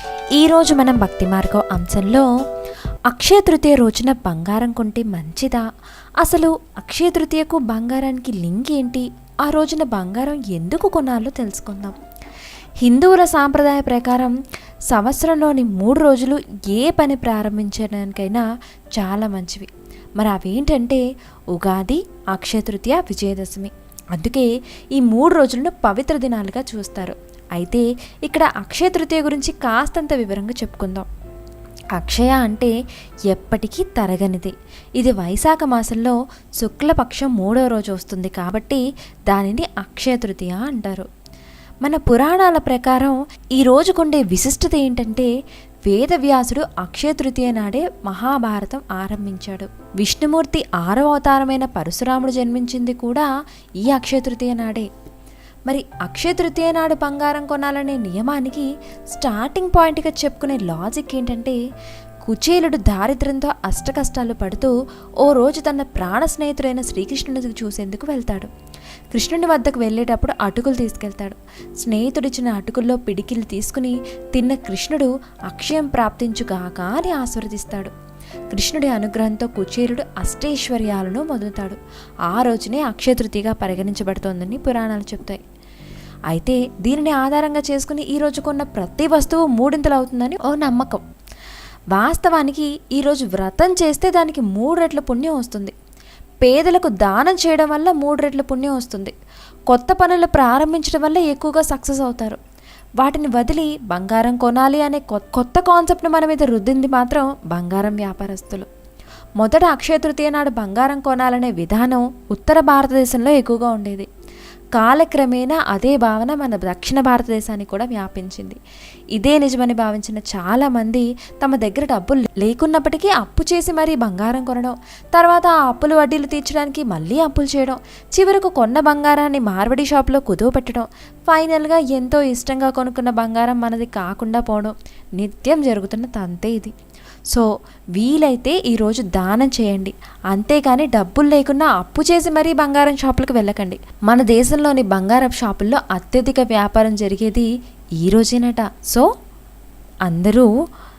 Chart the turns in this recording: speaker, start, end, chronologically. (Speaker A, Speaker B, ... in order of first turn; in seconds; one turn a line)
Speaker A: 0.3-2.3
Speaker A: 3.1-5.6
Speaker A: 6.2-11.9
Speaker A: 12.8-14.3
Speaker A: 14.9-18.4
Speaker A: 18.9-19.7
Speaker A: 20.2-31.1
Speaker A: 31.9-32.7
Speaker A: 33.3-41.0
Speaker A: 41.8-45.3
Speaker A: 45.9-53.3
Speaker A: 53.8-54.9
Speaker A: 55.7-61.6
Speaker A: 62.2-68.5
Speaker A: 69.1-77.9
Speaker A: 78.5-81.8
Speaker A: 82.3-85.4
Speaker A: 86.3-91.0
Speaker A: 91.9-95.7
Speaker A: 96.4-99.1
Speaker A: 99.7-102.4
Speaker A: 103.0-108.7
Speaker A: 109.4-114.1
Speaker A: 114.8-118.6
Speaker A: 119.1-136.7
Speaker A: 138.0-147.5
Speaker A: 148.0-149.1
Speaker A: 150.1-150.5